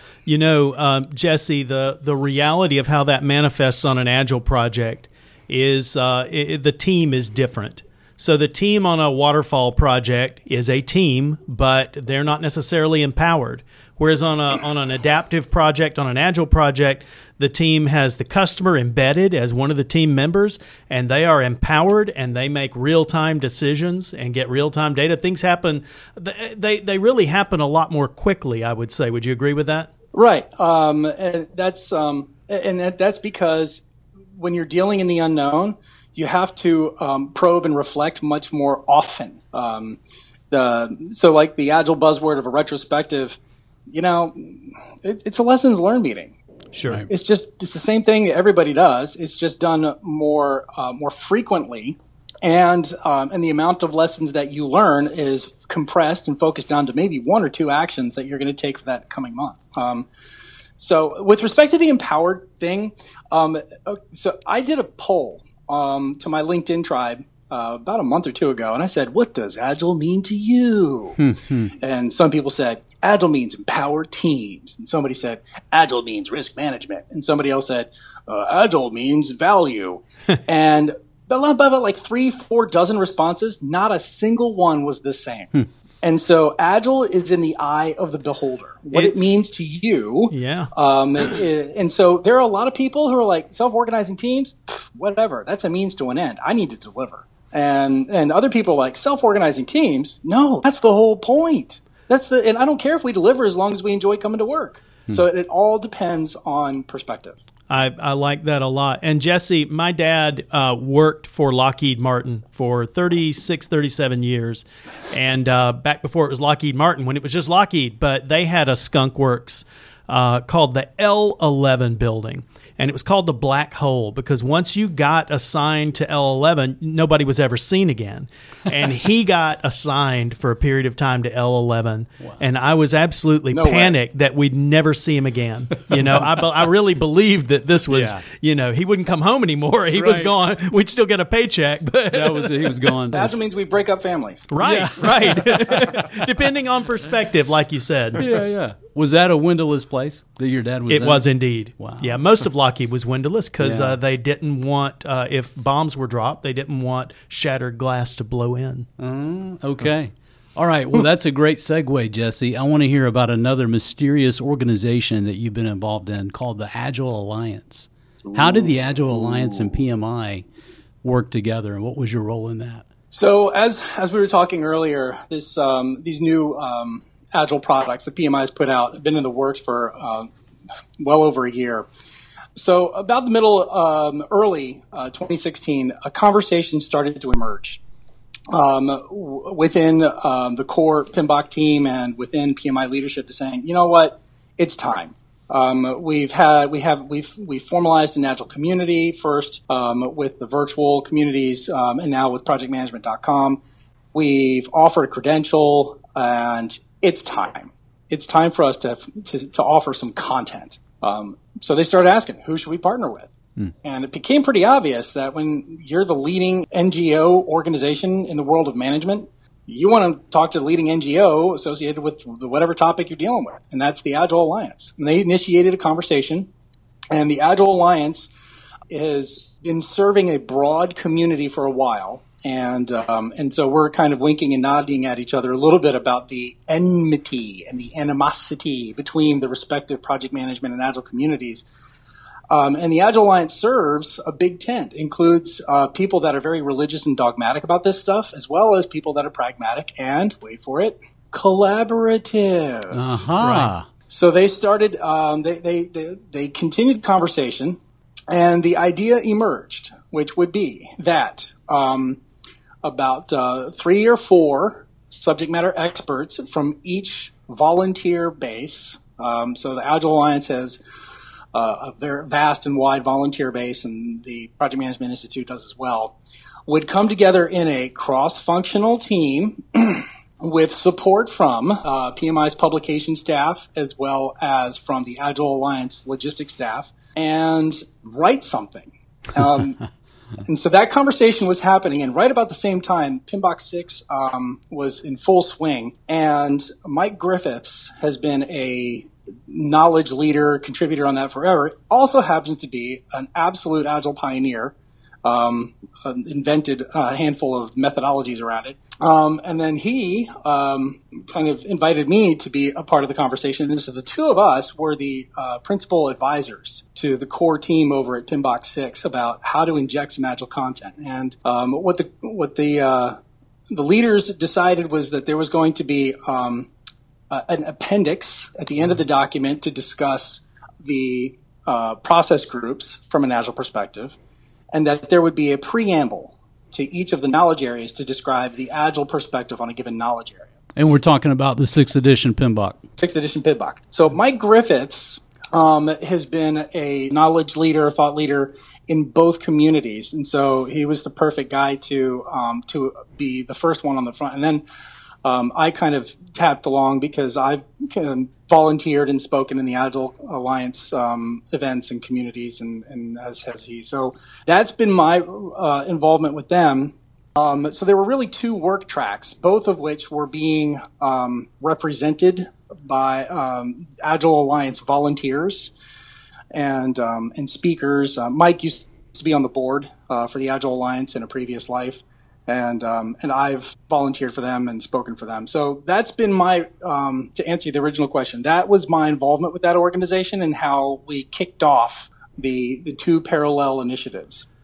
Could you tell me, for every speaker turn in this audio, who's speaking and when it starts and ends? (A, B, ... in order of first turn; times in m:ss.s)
0:00.3-0:29.9 A
0:30.1-0:33.8 B
0:34.4-0:40.0 B
0:40.5-0:46.4 B
0:46.7-0:47.0 A
0:47.1-1:00.1 B
1:00.8-1:11.2 B
1:11.2-1:11.7 C
1:11.8-1:47.4 B
1:28.9-1:29.4 A
1:30.3-1:30.7 A
1:47.7-2:22.9 A
2:13.5-2:14.0 B
2:17.9-2:18.2 C
2:20.0-2:20.3 C
2:22.1-2:23.4 C
2:23.1-2:24.5 B
2:24.5-2:28.3 A
2:24.6-2:26.1 C
2:28.2-2:31.3 C
2:30.9-2:38.9 A
2:31.8-2:32.2 C
2:33.6-2:34.0 C
2:39.0-2:50.4 C
2:48.3-2:48.8 B
2:51.0-2:52.8 C
2:53.1-3:00.3 B
3:01.0-3:01.9 B
3:02.6-3:07.8 B
3:08.5-3:23.6 B
3:24.1-3:46.5 B
3:47.1-3:48.3 B
3:48.9-4:01.6 B
4:02.5-4:13.0 B
4:12.9-4:13.9 C
4:13.4-4:13.7 A
4:14.1-4:22.2 B
4:22.8-4:30.8 B
4:31.5-4:36.2 B
4:36.7-4:49.8 B
4:50.4-5:23.2 B
5:23.7-5:26.7 B
5:27.3-5:34.2 B
5:34.7-5:40.5 B
5:40.8-5:42.8 C
5:43.0-5:54.6 B
5:55.2-6:15.7 B
6:16.5-6:34.4 B